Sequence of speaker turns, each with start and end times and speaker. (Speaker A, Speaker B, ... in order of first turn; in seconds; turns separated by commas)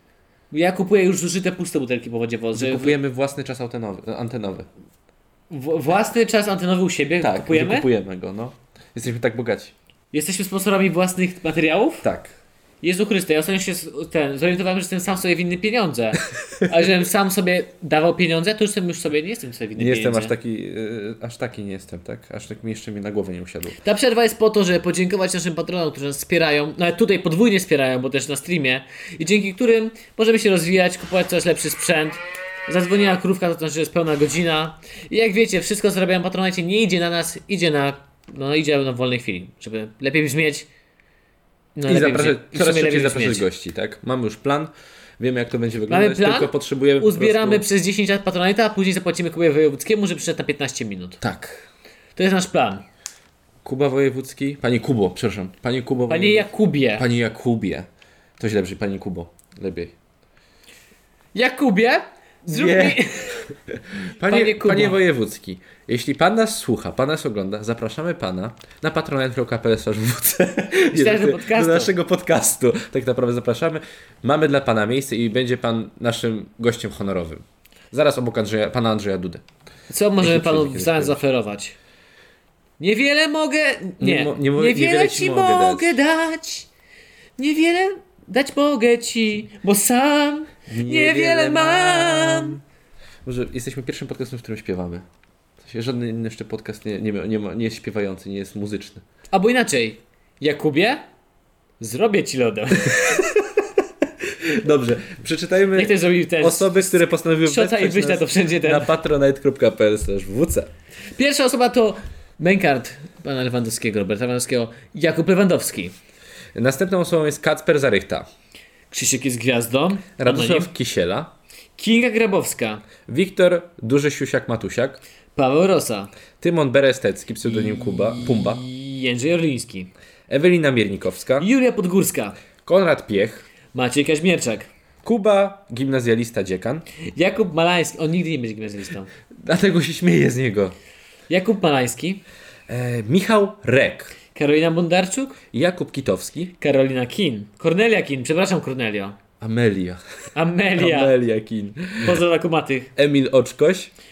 Speaker A: 0.5-3.0, Speaker B: 2.5-4.7, Speaker A: 5.5-7.9, Speaker B: 7.2-9.7, Speaker A: 10.1-12.1, Speaker B: 12.0-12.3, Speaker A: 12.8-20.3, Speaker B: 19.8-23.8, Speaker A: 23.8-40.7, Speaker A: 41.8-43.4, Speaker B: 41.9-47.6, Speaker A: 45.9-51.2, Speaker B: 51.2-51.6, Speaker A: 52.1-52.8, Speaker B: 53.6-57.9, Speaker A: 56.1-57.1, Speaker B: 58.4-59.9, Speaker A: 61.3-63.5, Speaker B: 62.5-79.4, Speaker A: 64.2-65.0, Speaker A: 70.9-71.9, Speaker A: 79.9-81.8, Speaker B: 80.2-81.2, Speaker A: 82.8-86.7, Speaker B: 84.0-86.0, Speaker A: 87.4-92.6, Speaker B: 90.7-92.6, Speaker B: 93.2-95.0, Speaker B: 95.6-99.0, Speaker A: 99.3-101.0, Speaker A: 101.8-103.2, Speaker B: 102.9-103.6, Speaker B: 104.2-110.7, Speaker A: 105.7-108.9, Speaker A: 111.2-115.9, Speaker B: 116.5-118.3, Speaker A: 118.9-120.7, Speaker B: 120.2-121.3, Speaker A: 121.8-122.8, Speaker B: 123.0-125.0, Speaker A: 125.3-126.1, Speaker B: 126.4-128.6, Speaker A: 127.4-129.9, Speaker B: 130.3-131.5, Speaker A: 131.4-132.3, Speaker B: 132.6-133.4, Speaker A: 133.7-134.7, Speaker B: 135.0-136.8, Speaker A: 137.1-139.1, Speaker B: 139.4-140.7, Speaker A: 141.3-142.2, Speaker B: 142.7-144.1, Speaker A: 144.3-145.4, Speaker B: 145.5-146.5, Speaker A: 146.6-149.2, Speaker B: 149.4-150.0, Speaker A: 150.3-151.1, Speaker B: 150.7-152.2, Speaker A: 152.0-152.9, Speaker B: 152.9-153.9